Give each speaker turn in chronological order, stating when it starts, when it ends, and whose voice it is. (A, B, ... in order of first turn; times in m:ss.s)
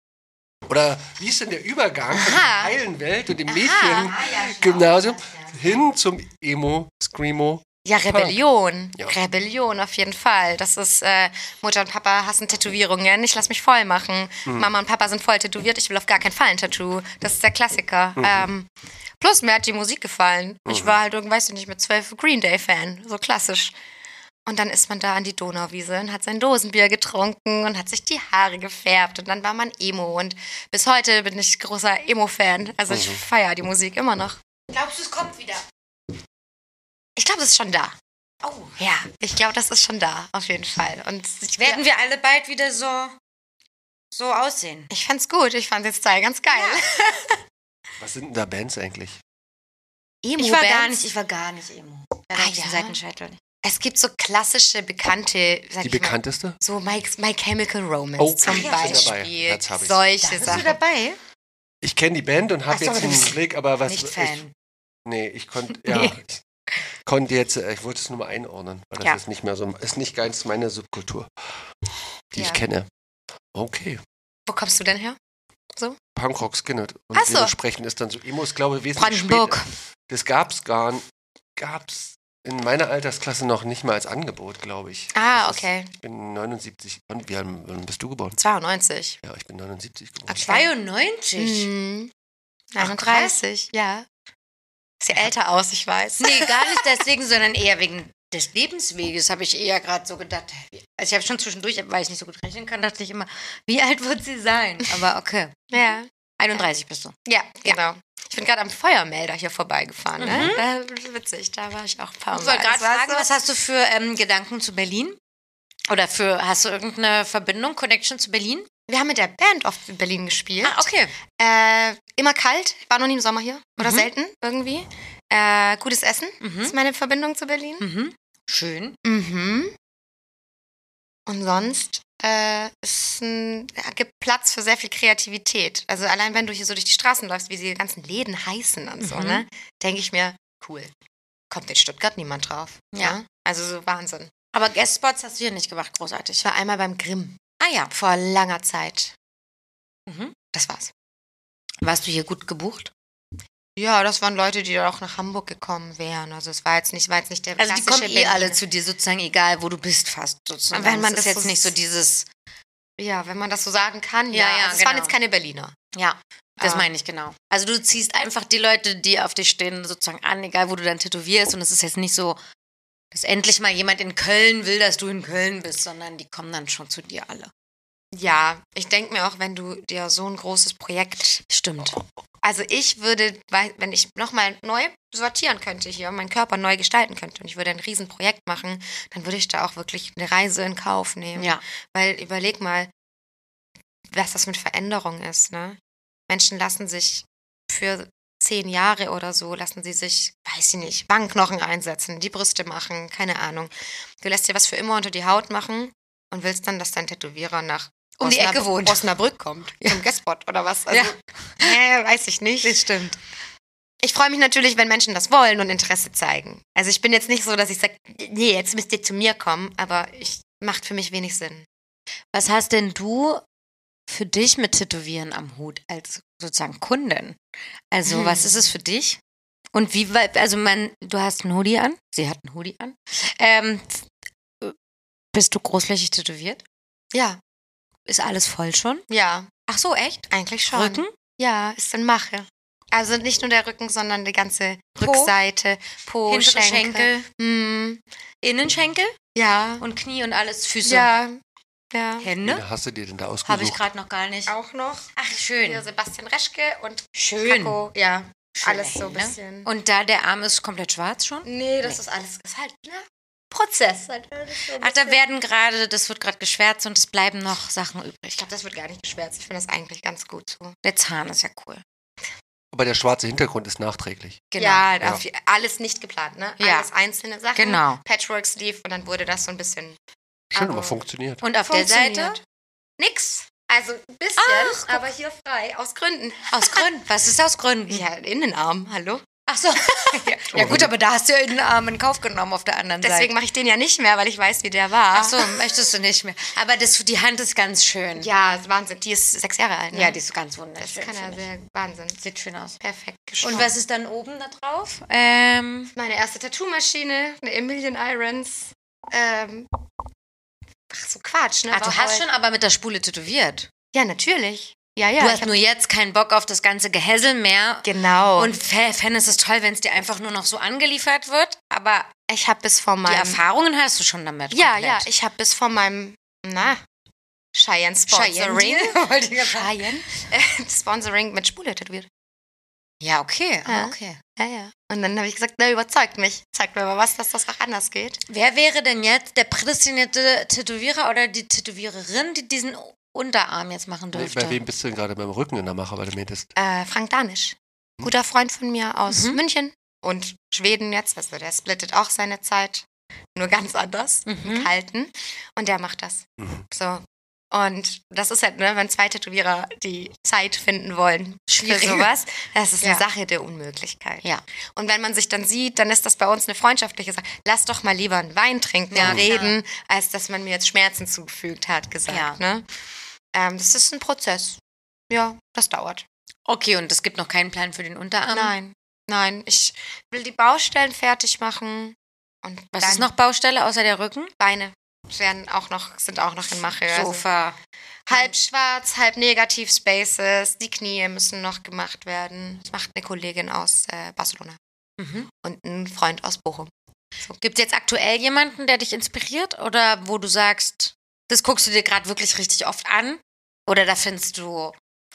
0:00.7-0:08.4 A
0:02.1-0:02.7 B
0:03.5-0:05.7 B
0:03.6-0:04.1 C
0:07.8-0:23.8 C
0:18.2-0:18.5 A
0:20.7-0:21.0 A
0:24.4-0:34.4 C
0:32.9-0:33.2 A
0:34.7-0:35.6 B
0:37.2-0:37.9 C
0:38.4-0:38.7 B
0:38.8-0:41.8 C
0:41.6-0:43.2 B
0:44.1-0:44.9 B
0:44.9-0:47.4 C
0:46.5-0:46.8 B
0:48.0-0:49.2 A
0:50.2-0:51.1 C
0:50.4-0:53.4 B
0:52.3-0:53.0 C
0:53.6-1:00.8 C
0:55.8-0:56.6 A
0:58.2-1:00.8 A
0:58.4-0:59.1 B
1:00.2-1:01.2 B
1:01.8-1:04.4 A
1:02.7-1:04.5 B
1:05.0-1:06.4 A
1:05.7-1:06.2 B
1:07.0-1:11.6 A
1:12.3-1:12.9 A
1:12.4-1:12.6 C
1:13.5-1:14.0 A
1:14.5-1:15.2 C
1:16.2-1:21.0 A
1:17.1-1:17.5 C
1:19.0-1:19.7 B
1:21.6-1:28.4 A
1:25.1-1:25.9 C
1:28.4-1:29.2 C
1:29.2-1:30.6 A
1:30.3-1:31.7 B
1:30.3-1:30.7 C
1:31.4-1:32.1 C
1:32.7-1:34.1 C
1:32.8-1:33.4 B
1:35.0-1:36.6 C
1:36.2-1:47.8 B
1:45.7-1:46.6 C
1:47.2-1:53.3 C
1:50.2-1:50.6 B
1:52.3-1:55.2 B
1:55.9-1:58.7 B
1:58.9-2:07.8 C
2:00.6-2:01.1 B
2:03.8-2:04.1 B
2:06.4-2:06.7 B
2:07.8-2:09.0 B
2:09.0-2:09.7 C
2:11.3-2:20.9 C
2:19.0-2:19.4 B
2:21.5-2:24.3 C
2:22.9-2:23.2 B
2:24.5-2:26.5 B
2:26.4-2:27.4 C
2:27.6-2:27.9 B
2:27.9-2:29.1 C
2:30.1-2:30.3 B
2:30.5-2:30.9 C
2:31.8-2:32.9 B
2:33.8-2:38.6 C
2:37.6-2:42.3 B
2:40.7-2:41.7 C
2:43.0-2:45.7 C
2:44.3-2:45.1 B
2:45.9-2:52.4 B
2:46.6-2:46.9 C
2:53.1-2:57.5 B
2:58.1-3:01.4 C
3:01.5-3:02.0 B
3:02.4-3:12.9 C
3:11.4-3:11.6 B
3:14.1-3:15.8 C
3:16.3-3:32.8 C
3:28.2-3:29.1 B
3:30.9-3:31.8 B
3:32.6-3:33.2 B
3:34.0-3:41.7 C
3:42.3-3:43.4 B
3:44.1-3:47.4 B
3:47.9-3:49.2 B
3:48.0-3:48.7 C
3:49.7-3:54.0 B
3:55.3-3:56.6 B
3:57.1-3:57.4 C
3:58.1-3:59.0 B
3:59.1-3:59.5 C
3:59.7-4:01.1 B
4:00.3-4:08.0 C
4:05.0-4:05.3 B
4:06.3-4:07.3 B
4:08.4-4:09.2 B
4:09.3-4:09.8 C
4:09.8-4:11.1 B
4:10.8-4:11.4 C
4:11.9-4:12.3 C
4:12.2-4:12.6 B
4:12.4-4:13.8 A
4:13.4-4:14.5 B
4:14.5-4:19.7 C
4:15.2-4:15.8 B
4:17.1-4:17.8 B
4:18.5-4:22.0 B
4:21.4-4:25.2 C
4:24.8-4:28.4 B
4:28.4-4:30.8 C
4:30.8-4:31.8 B
4:32.7-4:34.4 A
4:34.5-4:34.9 B
4:34.6-4:40.0 C
4:36.6-4:36.9 B
4:37.6-4:38.0 B
4:40.5-4:41.4 A
4:40.5-4:41.0 C
4:41.4-4:42.4 B
4:41.6-4:42.4 C
4:43.0-4:46.9 C
4:44.4-4:45.0 B
4:46.5-4:48.0 B
4:47.9-4:49.3 C
4:49.5-4:53.3 B
4:49.8-4:50.8 C
4:50.5-4:50.9 A
4:53.0-4:55.7 C
4:55.1-4:58.3 B
4:58.2-5:00.2 C
4:59.9-5:01.4 B
5:00.8-5:02.2 C
5:02.2-5:02.8 B
5:02.8-5:03.7 C
5:03.4-5:05.9 B
5:05.9-5:09.7 C
5:10.9-5:12.2 C
5:11.7-5:13.7 B
5:13.9-5:15.6 C
5:15.2-5:22.1 B
5:17.8-5:18.5 C
5:22.3-5:23.4 C
5:23.0-5:25.1 B
5:24.5-5:26.8 C
5:27.5-5:32.1 C
5:28.1-5:30.1 B
5:33.0-5:34.2 B
5:33.6-5:38.2 C
5:38.3-5:44.6 B
5:44.1-5:46.5 A
5:46.6-5:52.8 C
5:49.1-5:49.4 B
5:53.3-6:12.6 C
5:54.3-5:54.7 B
5:56.4-5:56.6 A
6:01.5-6:02.1 B
6:08.9-6:09.6 B
6:09.0-6:09.3 A
6:12.1-6:12.4 B
6:13.3-6:16.0 C
6:16.4-6:18.5 B
6:18.3-6:23.1 C
6:22.7-6:24.3 B
6:24.4-6:27.2 C
6:26.8-6:27.6 B
6:28.1-6:34.6 C
6:35.0-6:35.3 B
6:35.4-6:36.7 C
6:37.4-6:44.7 B